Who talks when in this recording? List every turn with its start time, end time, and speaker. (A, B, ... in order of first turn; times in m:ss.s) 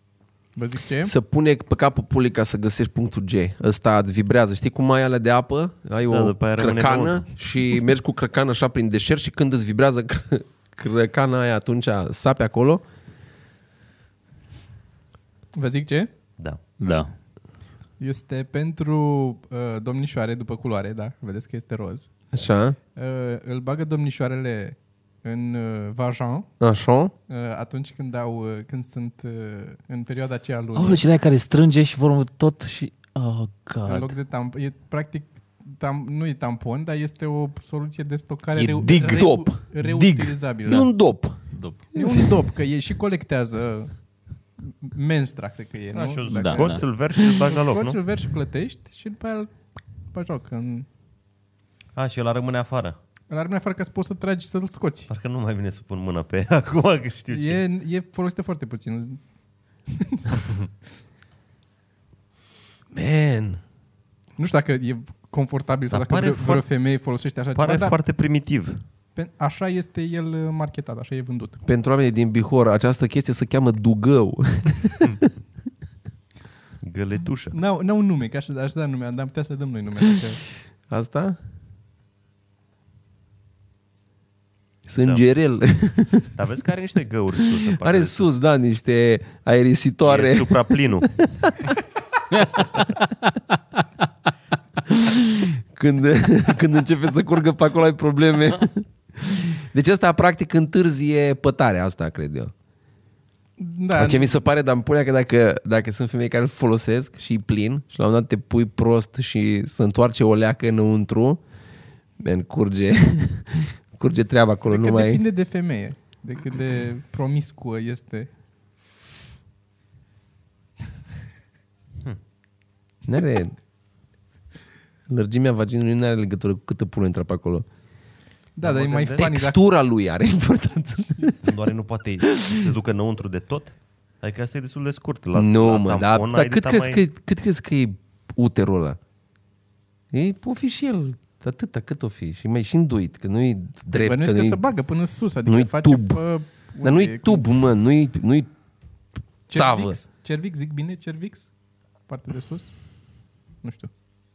0:00.6-0:01.1 A
0:01.0-0:12.8 B
0:06.1-0:07.3 C
0:15.5-0:16.1 A
0:16.8-0:17.1 D
0:18.0-0:22.1 A
0:22.3-0:22.8 B
0:22.9-0:26.5 A
0:26.6-0:27.1 B
0:27.3-0:31.0 A
0:30.7-0:34.1 D
0:33.9-0:40.8 A
0:38.5-0:40.9 D
0:39.0-0:39.5 B
0:40.6-0:42.2 B
0:41.5-0:41.8 D
0:41.9-0:44.0 A
0:44.6-0:49.6 A
0:45.9-0:48.0 C
0:46.3-0:46.8 D
0:50.1-0:50.9 A
0:51.9-0:53.0 C
0:53.3-0:55.1 A
0:55.1-0:57.6 C
0:57.3-0:59.2 A
0:59.9-1:00.6 A
1:02.9-1:03.6 B
1:04.4-1:08.0 A
1:05.9-1:06.7 C
1:07.5-1:08.8 C
1:09.2-1:11.6 A
1:11.6-1:15.3 B
1:16.8-1:17.6 C
1:17.5-1:20.4 A
1:20.9-1:21.4 B
1:24.8-1:26.3 B
1:26.3-1:28.3 C
1:27.7-1:31.8 B
1:30.0-1:31.1 C
1:32.3-1:32.8 B
1:34.8-1:42.5 B
1:43.6-1:44.4 A
1:43.9-1:51.4 B
1:52.2-1:55.2 B
1:54.7-1:58.3 A
2:03.0-2:03.6 B
2:05.1-2:07.6 B
2:08.6-2:09.6 A
2:08.6-2:09.3 C
2:09.2-2:11.3 B
2:11.4-2:17.0 C
2:12.2-2:12.6 B
2:15.3-2:19.0 B
2:20.1-2:24.6 B
2:23.9-2:27.4 A
2:25.4-2:26.2 B
2:26.8-2:28.5 B
2:29.5-2:31.5 A
2:29.5-2:30.0 B
2:32.0-2:32.9 A
2:33.6-2:33.9 A